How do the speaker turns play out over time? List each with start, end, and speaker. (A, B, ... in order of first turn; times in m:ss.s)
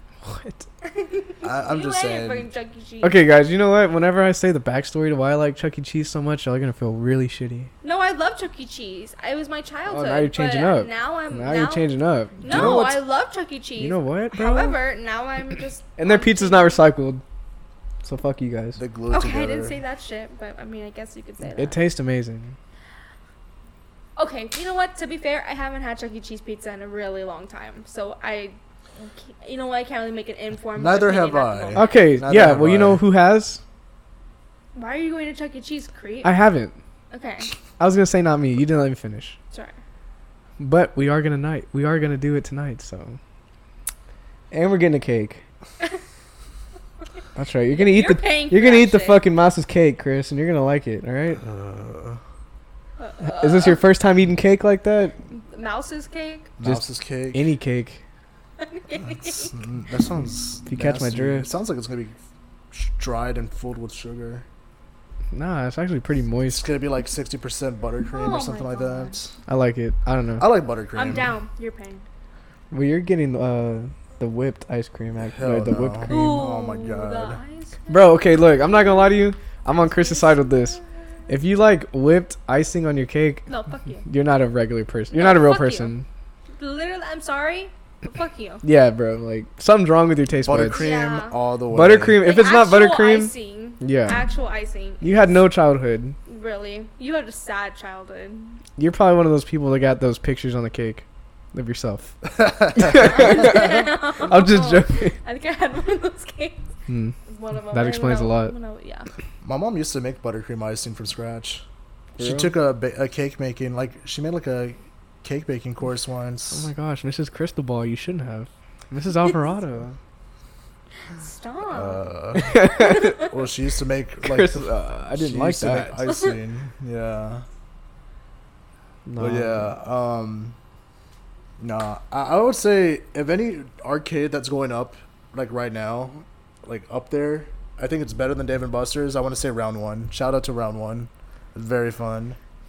0:00.2-0:00.7 A
0:00.8-0:03.2 B
0:01.4-0:02.5 C
0:03.0-0:07.7 A
0:07.8-0:11.9 B
0:09.9-0:13.0 A
0:12.4-0:16.9 B
0:12.4-0:13.0 C
0:13.8-0:14.8 A
0:16.0-0:17.2 A
0:18.0-0:18.8 A
0:18.8-0:19.8 C
0:19.1-0:21.8 B
0:21.6-0:22.6 A
0:24.2-0:32.0 B
0:30.8-0:33.0 C
0:31.8-0:33.6 A
0:34.8-0:36.3 B
0:36.2-0:36.8 A
0:37.1-0:37.5 B
0:37.8-0:39.4 A
0:40.6-0:43.2 A
0:44.5-0:45.4 A
0:47.4-0:51.4 A
0:47.8-0:49.2 B
0:51.4-0:52.2 C
0:53.0-0:53.8 B
0:53.2-0:55.2 A
0:55.3-0:56.5 B
0:56.6-0:57.4 C
0:56.6-0:58.0 A
0:58.6-0:59.5 B
0:59.0-1:02.2 C
1:00.7-1:01.5 A
1:02.7-1:04.4 C
1:05.3-1:06.7 A
1:06.5-1:09.4 C
1:08.1-1:09.2 B
1:09.5-1:10.5 A
1:10.4-1:11.3 C
1:11.0-1:12.0 B
1:12.7-1:16.5 A
1:15.2-1:17.4 C
1:16.1-1:20.8 B
1:17.9-1:23.5 A
1:23.5-1:24.1 B
1:24.0-1:26.1 A
1:25.1-1:25.9 B
1:26.6-1:28.6 B
1:28.6-1:30.9 A
1:30.4-1:32.2 C
1:30.7-1:31.4 B
1:31.7-1:34.2 A
1:32.2-1:35.2 B
1:35.0-1:36.2 A
1:36.3-1:38.6 B
1:38.8-1:42.2 A
1:42.2-1:43.4 C
1:42.7-1:45.2 A
1:42.9-1:46.7 B
1:46.9-1:47.2 A
1:47.3-1:49.1 B
1:47.7-1:48.5 A
1:49.4-1:51.6 C
1:52.2-1:52.5 A
1:52.2-1:56.7 C
1:56.5-2:00.0 A
2:01.1-2:03.4 B
2:01.7-2:07.4 C
2:02.4-2:03.2 A
2:04.2-2:06.0 A
2:06.0-2:06.4 B
2:09.1-2:09.7 A
2:09.2-2:10.6 C
2:11.6-2:22.4 C